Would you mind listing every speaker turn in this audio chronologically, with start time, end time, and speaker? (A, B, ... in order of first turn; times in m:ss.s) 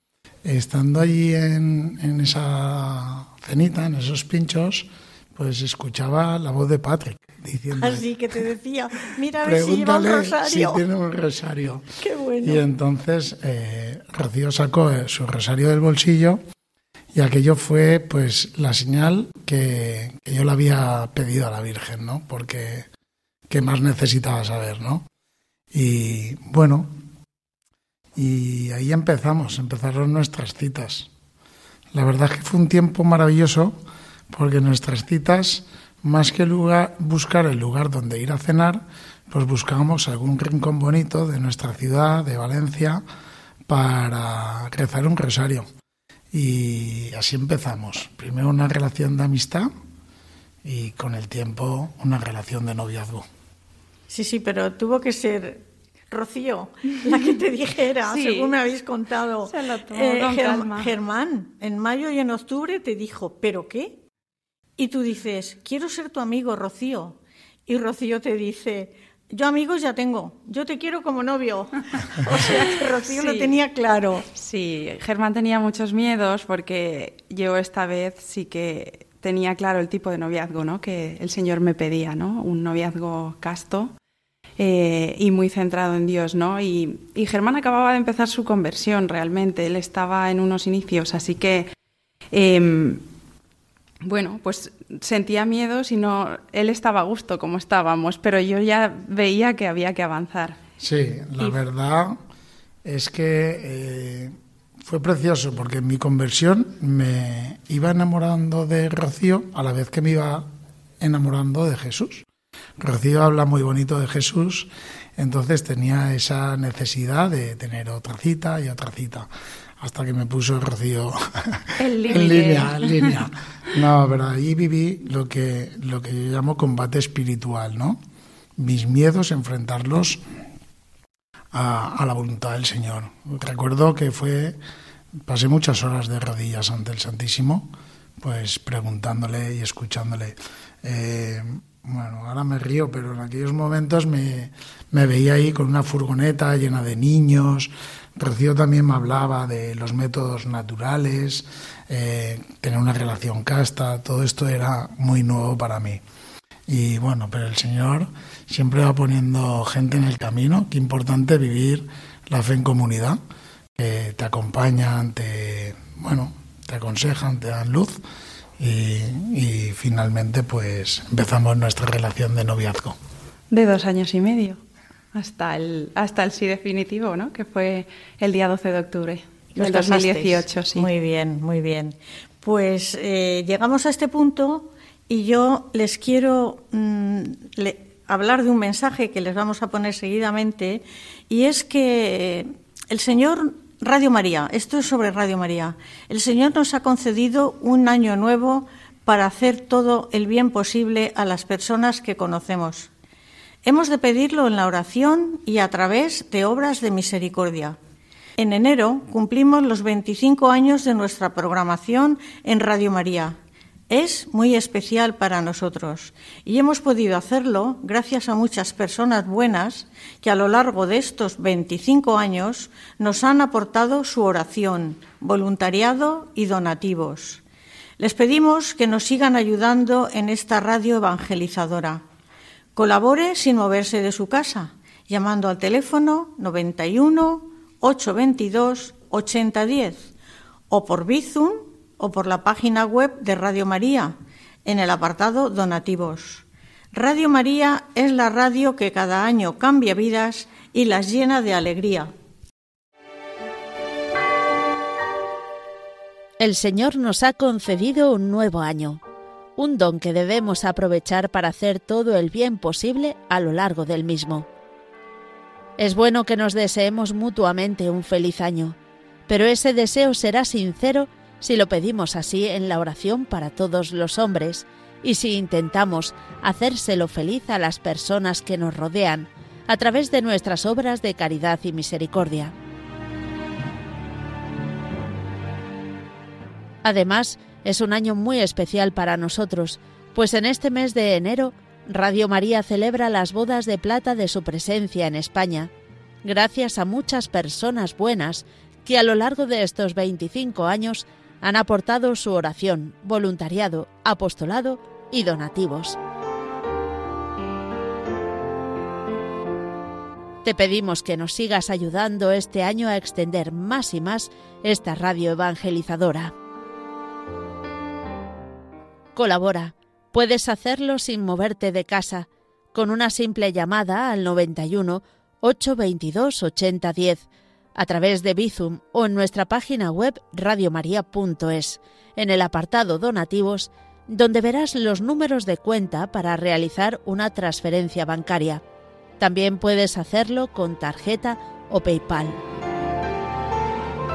0:00.4-0:08.0 A
0:07.8-0:10.8 B
0:09.4-0:11.8 A
0:12.0-0:12.6 B
0:12.4-0:16.4 A
0:17.1-0:22.9 A
0:23.5-0:25.0 A
0:25.7-0:27.0 A
0:28.2-0:31.1 A
0:31.9-0:33.8 A
0:34.3-0:43.0 A
0:43.7-0:45.7 A
0:46.3-0:49.7 A
0:50.6-0:53.3 A
0:54.1-1:04.0 B
0:58.1-0:58.6 C
0:59.5-1:00.9 C
1:04.8-1:14.3 B
1:12.3-1:13.6 C
1:14.3-1:23.9 C
1:24.6-1:31.7 C
1:32.3-1:33.0 C
1:34.0-1:40.6 C
1:40.8-1:42.2 A
1:42.8-1:50.5 A
1:51.0-1:52.3 A
1:52.8-1:59.3 A
1:59.8-2:08.0 A
2:01.8-2:03.2 C
2:08.6-2:10.2 A
2:11.5-2:14.6 A
2:15.2-2:36.0 A
2:36.7-2:43.2 A
2:43.8-2:48.0 A
2:48.6-2:53.0 A
2:53.5-2:54.6 C
2:55.1-3:00.9 C
2:59.6-3:22.9 B
3:23.6-3:27.8 B
3:28.4-3:33.4 B
3:33.9-3:47.4 B
3:48.0-3:52.0 B
3:52.8-4:00.1 B
4:00.7-4:12.1 B
4:16.4-4:19.0 D
4:19.6-4:24.5 D
4:25.8-4:28.8 D
4:29.3-4:42.5 D
4:46.8-4:55.7 D
4:56.2-5:06.0 D
5:10.4-5:16.3 D
5:19.2-5:38.6 D
5:39.2-5:42.4 D